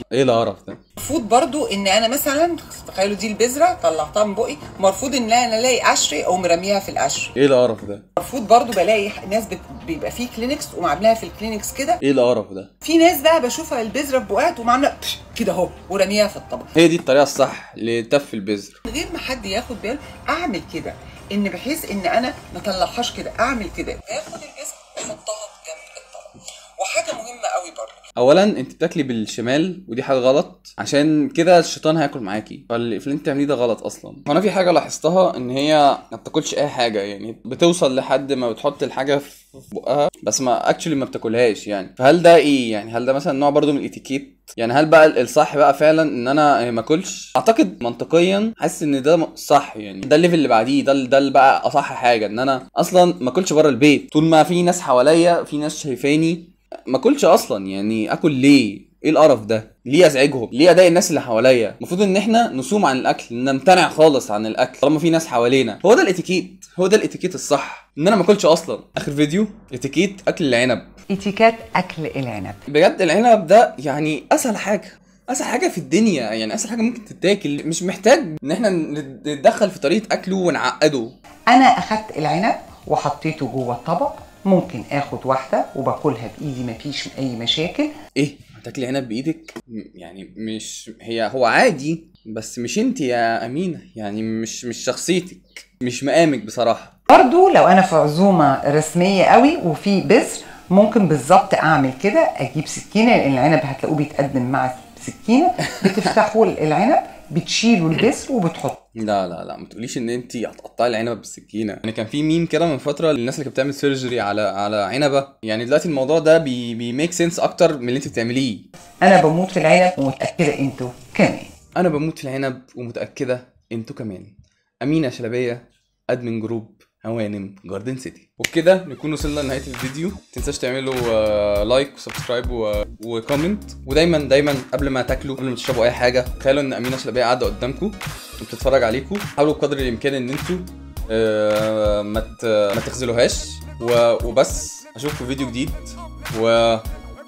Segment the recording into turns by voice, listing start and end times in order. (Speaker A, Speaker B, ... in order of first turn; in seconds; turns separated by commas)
Speaker A: 0.1-0.8, Speaker B: 1.0-7.3, Speaker A: 7.3-8.0, Speaker B: 8.2-12.0, Speaker A: 12.0-12.7, Speaker B: 12.8-16.7, Speaker A: 16.7-18.8, Speaker B: 18.9-28.0, Speaker A: 28.1-70.9, Speaker B: 71.1-72.6, Speaker A: 72.7-81.1, Speaker B: 81.5-87.9, Speaker A: 88.2-96.9, Speaker B: 97.1-108.8, Speaker A: 105.7-106.1, Speaker A: 109.0-118.7, Speaker B: 119.0-121.5, Speaker A: 121.8-146.8